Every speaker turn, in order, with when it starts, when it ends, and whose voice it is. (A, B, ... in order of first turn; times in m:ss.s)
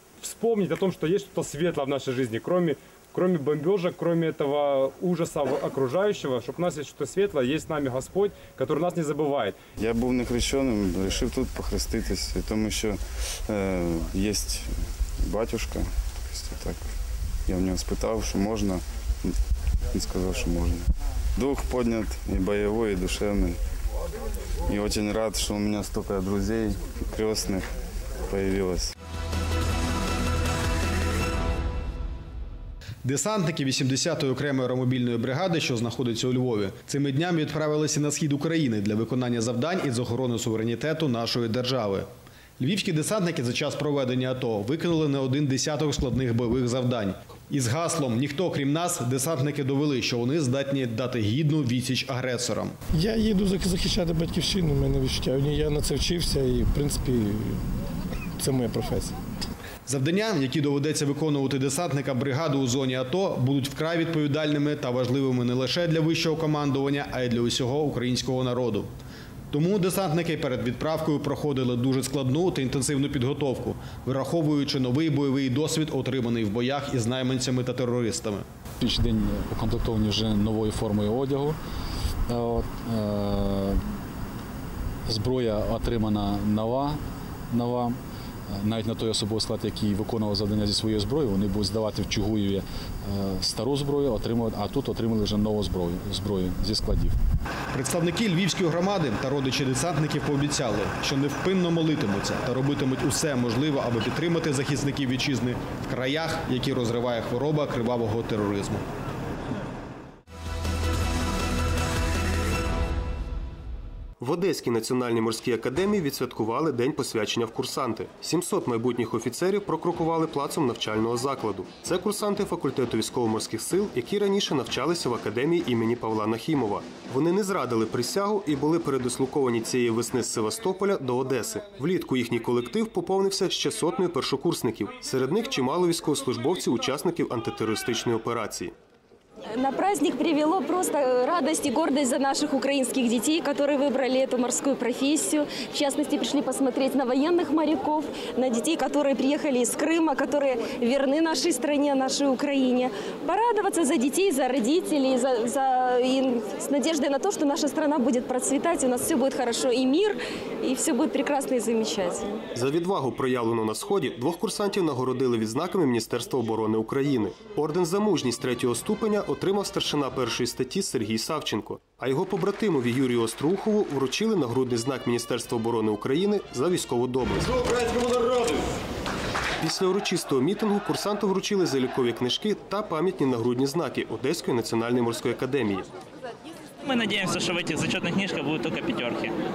0:00.2-0:09.5 A
0:09.8-0:14.7 B
0:15.2-0:16.8 B
0:17.5-0:18.8 B
0:19.9-0:20.9 B
0:21.4-0:23.6 B
0:24.7-0:27.7 B
0:28.3-0:28.9 B
0:33.0-0:42.1 C
0:42.6-0:52.8 C
0:53.1-0:57.6 D
0:58.4-0:59.2 D
0:59.9-1:08.9 C
1:09.5-1:18.4 C
1:18.8-1:21.6 E
1:22.3-1:24.0 E
1:25.1-1:28.0 E
1:28.5-1:37.2 E
1:37.7-1:48.8 C
1:54.2-2:18.7 F
2:19.5-2:42.4 G
2:42.6-2:57.9 F
2:59.6-3:05.9 F
3:06.8-3:09.4 H